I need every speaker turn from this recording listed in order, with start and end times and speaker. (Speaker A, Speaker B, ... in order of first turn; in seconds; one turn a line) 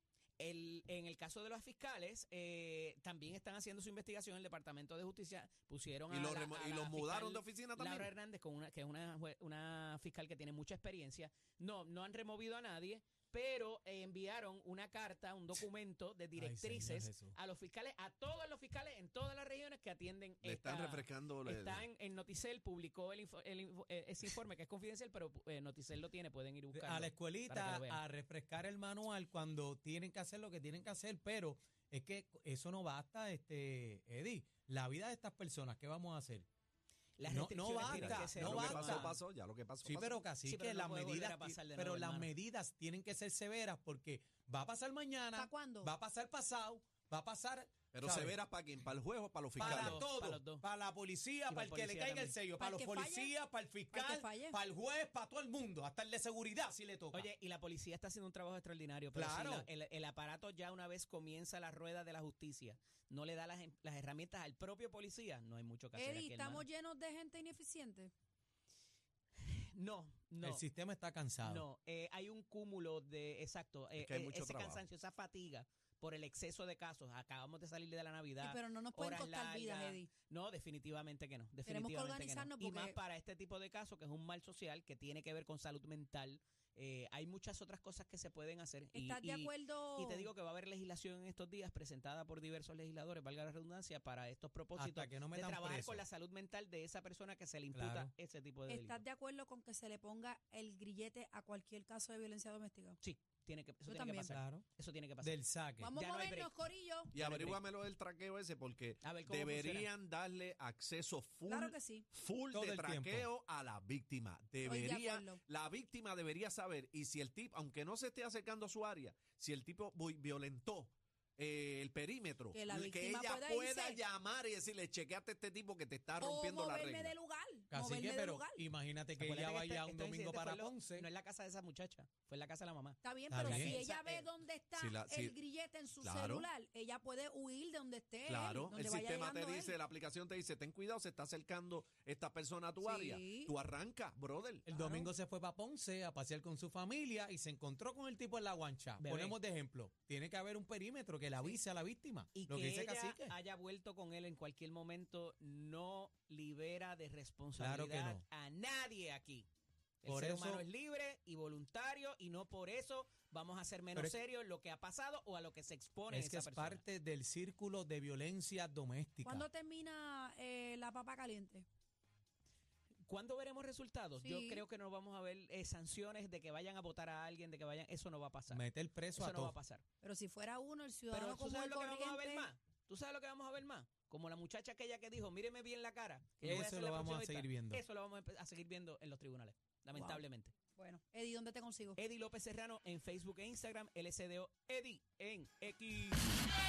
Speaker A: 0.4-28.0
Speaker B: 6.1-8.1
Speaker C: 16.4-17.3
Speaker B: 20.4-21.9
Speaker C: 26.7-36.5
Speaker A: 37.2-39.2
Speaker C: 37.3-39.1
Speaker B: 37.8-40.2
Speaker C: 39.8-48.4
Speaker A: 40.4-42.3
Speaker D: 45.3-45.9
Speaker B: 47.9-50.0
Speaker A: 49.6-50.6
Speaker C: 49.6-57.3
Speaker A: 51.5-52.4
Speaker D: 52.5-53.3
Speaker D: 53.9-54.6
Speaker A: 57.1-66.6
Speaker C: 59.1-59.7
Speaker D: 66.0-68.1
Speaker A: 69.4-70.6
Speaker C: 70.4-71.6
Speaker A: 71.4-99.0
Speaker B: 74.0-74.8
Speaker D: 78.4-80.1
Speaker D: 81.7-83.0
Speaker D: 88.9-90.3
Speaker C: 94.8-96.0
Speaker C: 97.7-98.1
Speaker D: 98.7-103.0
Speaker A: 103.0-105.4
Speaker D: 103.8-104.3
Speaker C: 104.3-104.6
Speaker C: 105.2-105.9
Speaker D: 105.8-107.1
Speaker A: 105.9-106.5
Speaker A: 107.1-107.6
Speaker B: 107.1-127.1
Speaker A: 109.0-109.9
Speaker D: 111.5-112.0
Speaker C: 112.5-113.3
Speaker D: 114.6-115.4
Speaker D: 122.5-124.0
Speaker D: 126.2-128.6
Speaker C: 127.7-131.1
Speaker A: 129.2-134.3
Speaker D: 133.0-139.8
Speaker C: 133.3-133.8
Speaker B: 134.8-135.3
Speaker B: 136.0-136.5
Speaker B: 138.3-144.7
Speaker D: 142.8-143.5
Speaker C: 144.7-153.3
Speaker D: 144.7-145.1
Speaker A: 149.0-149.4
Speaker A: 152.3-159.4
Speaker C: 157.6-158.2
Speaker A: 160.0-166.8
Speaker C: 160.1-160.6
Speaker C: 166.1-169.4
Speaker D: 169.2-171.7
Speaker A: 173.1-179.8
Speaker D: 174.2-174.6
Speaker C: 178.5-179.5
Speaker D: 180.0-182.5
Speaker A: 181.1-190.5
Speaker C: 186.4-187.8
Speaker D: 189.9-190.2
Speaker D: 190.7-192.0
Speaker A: 192.0-196.2